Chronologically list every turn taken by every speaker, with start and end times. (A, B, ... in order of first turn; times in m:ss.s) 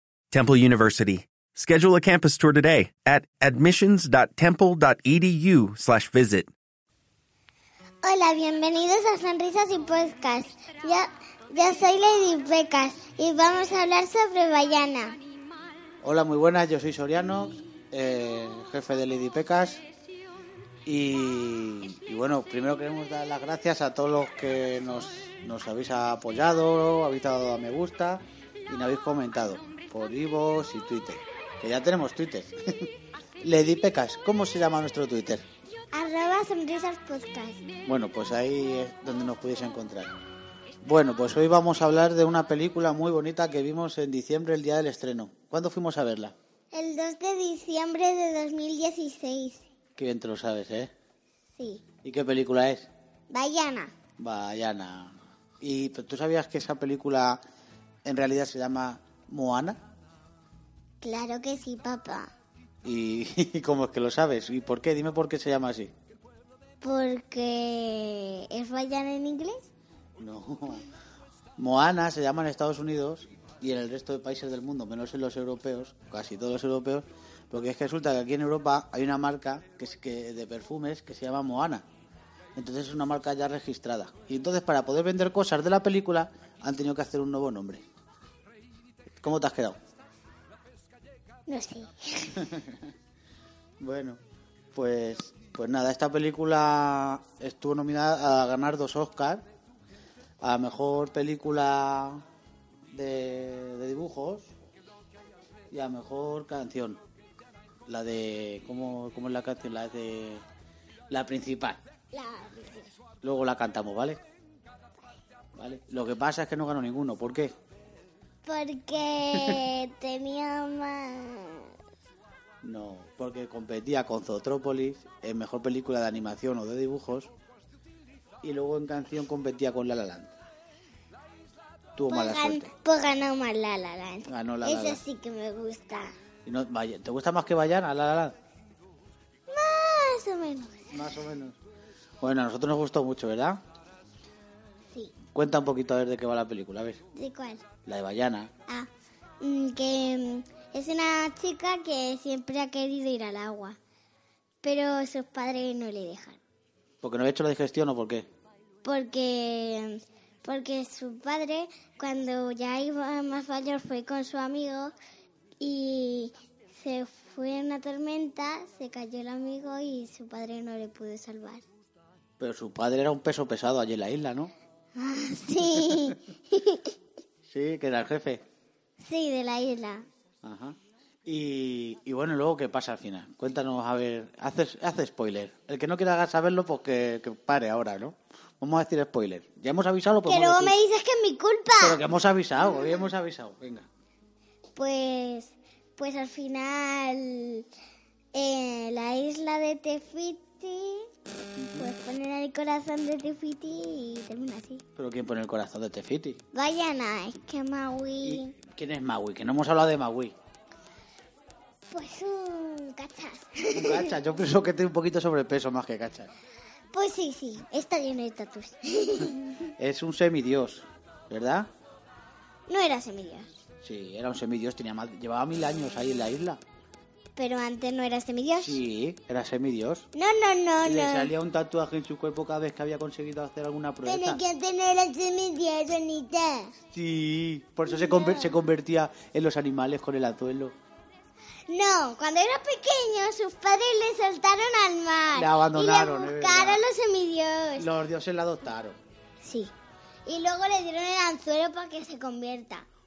0:00.3-0:06.5 A
0:08.0-0:15.2 B
0:16.0-0:19.8 C
0:20.8-0:35.4 C
0:35.9-0:37.6 B
0:37.8-0:40.1 C
0:40.8-0:46.3 C
0:46.7-0:49.6 B
0:50.0-0:50.9 C
0:51.6-0:51.8 B
0:52.0-0:52.9 C
0:53.3-0:53.9 B
0:54.2-0:57.4 C
0:58.0-0:59.8 C
1:01.0-1:02.3 B
1:02.8-1:05.9 C
1:06.8-1:09.7 B
1:10.2-1:10.8 C
1:11.6-1:21.8 C
1:22.6-1:27.8 C
1:29.2-1:29.8 C
1:31.5-1:32.5 B
1:33.8-1:34.2 C
1:34.7-1:39.4 C
1:40.4-1:42.2 C
1:42.9-1:44.5 C
1:45.7-1:47.0 C
1:47.9-1:50.4 C
1:51.1-1:51.8 C
1:52.1-1:52.9 B
1:53.2-1:54.2 C
1:55.6-1:57.5 C
1:58.4-2:01.7 B
2:02.6-2:07.3 C
2:08.4-2:10.3 C
2:11.9-2:12.7 C
2:12.1-2:16.1 B
2:14.3-2:15.0 C
2:16.4-2:18.3 C
2:19.5-2:21.0 B
2:20.9-2:21.6 C
2:22.2-2:23.6 C
2:25.3-2:27.0 C
2:27.1-2:27.6 B
2:27.8-2:28.5 C
2:29.4-2:33.8 B
2:34.6-2:36.4 B
2:37.0-2:38.3 C
2:38.8-2:44.9 B
2:45.6-2:51.6 B
2:52.4-2:54.5 C
2:55.0-2:56.9 B
2:57.5-2:58.4 C
2:59.0-3:00.0 B
3:00.4-3:10.7 C
3:10.2-3:12.0 B
3:11.8-3:13.9 C
3:14.7-3:17.7 B
3:18.3-3:21.1 B
3:21.6-3:21.9 C
3:21.8-3:24.8 B
3:25.0-3:26.4 C
3:26.5-3:28.5 B
3:28.2-3:30.3 C
3:31.9-3:34.2 B
3:33.7-3:36.3 C
3:36.9-3:39.7 B
3:39.8-3:41.7 C
3:42.7-3:43.6 B
3:43.8-3:46.6 C
3:47.4-3:48.8 B
3:48.6-3:50.1 C
3:50.1-3:51.3 B
3:50.8-3:54.4 C
3:54.0-3:56.7 B
3:56.9-4:00.7 C
3:57.9-3:58.5 B
4:01.7-4:07.9 B
4:05.3-4:06.8 C
4:07.8-4:09.0 C
4:09.4-4:09.7 B
4:10.2-4:12.9 B